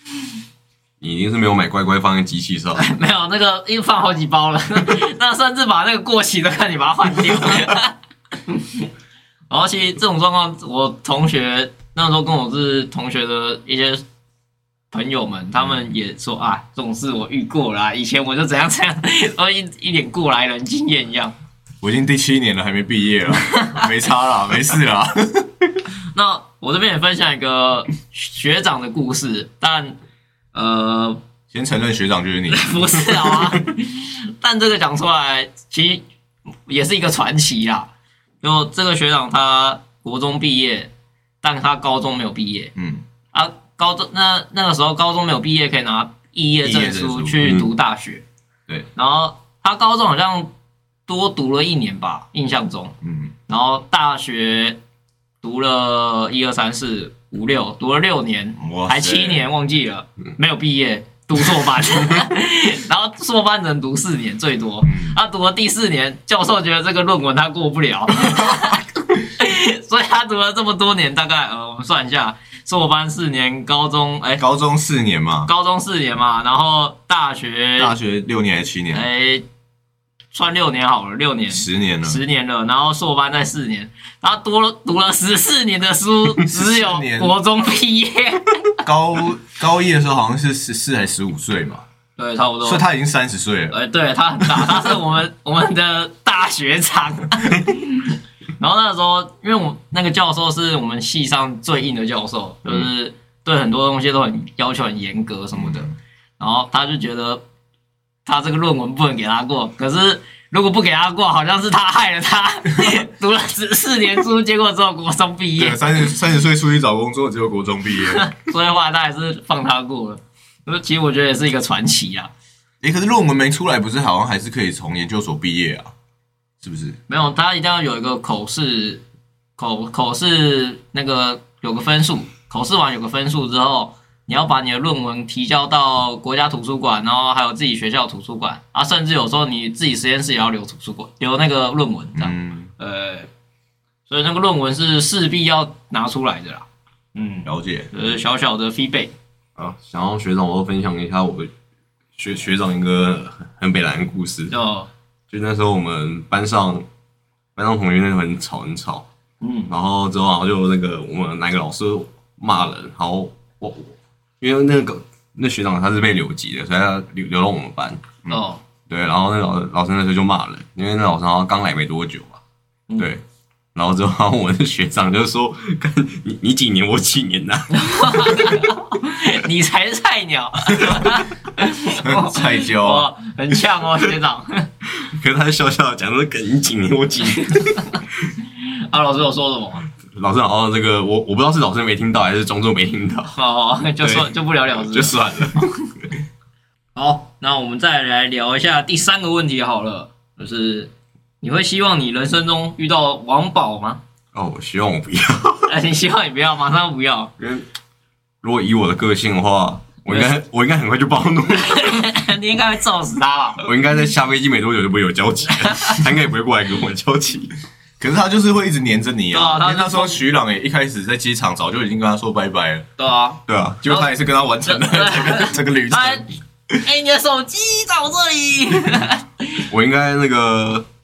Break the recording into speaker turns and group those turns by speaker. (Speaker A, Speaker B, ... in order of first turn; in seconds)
Speaker A: 1.0-2.8, 47.4-47.7, 149.6-151.5, 152.2-154.5, 155.3-156.8, 157.6-159.1, 159.7-168.1, 168.9-172.4, 173.7-178.5, 185.0-188.0, 190.1-193.4, 194.0-195.6, 204.3-205.7, 207.4-207.6, 208.4-212.0, 213.6-217.5, 223.5-223.8, 229.7-230.8
Speaker B: 2.8-7.9, 8.5-8.8, 9.5-14.0, 14.9-21.3, 23.5-23.8, 26.1-30.0, 30.5-31.2, 32.5-36.0, 36.7-37.9, 38.4-40.9, 41.4-42.7, 43.3-48.2, 48.9-50.5, 51.1-53.0, 53.5-54.8, 55.4-74.4, 75.5-77.9, 78.9-79.4, 80.3-88.7, 92.2-92.8, 93.7-107.4, 108.2-116.0, 118.1-122.3, 127.1-129.0, 129.6-143.3, 144.1-149.1, 154.5-154.9, 159.4-159.7, 168.3-168.6, 177.7-184.7, 187.3-187.7, 188.6-189.8, 193.3-195.7, 196.9-200.9, 201.4-204.0, 205.7-207.3, 210.1-210.3, 211.5-213.7, 215.6-216.0, 219.3-220.2, 223.0-224.1, 224.7-226.2, 226.8-229.6
Speaker C: 21.8-25.7, 31.5-33.1, 42.8-43.0, 46.6-47.4, 53.0-53.3, 58.6-59.4, 64.8-65.2, 68.3-68.6, 74.4-75.5, 77.8-79.0, 81.5-82.2, 86.4-87.3, 88.8-91.8, 92.6-93.8, 105.5-105.9, 115.6-118.3, 122.8-125.9, 126.6-127.0, 142.2-142.7, 147.4-147.9, 182.0-183.1, 218.0-222.9, 223.8-226.2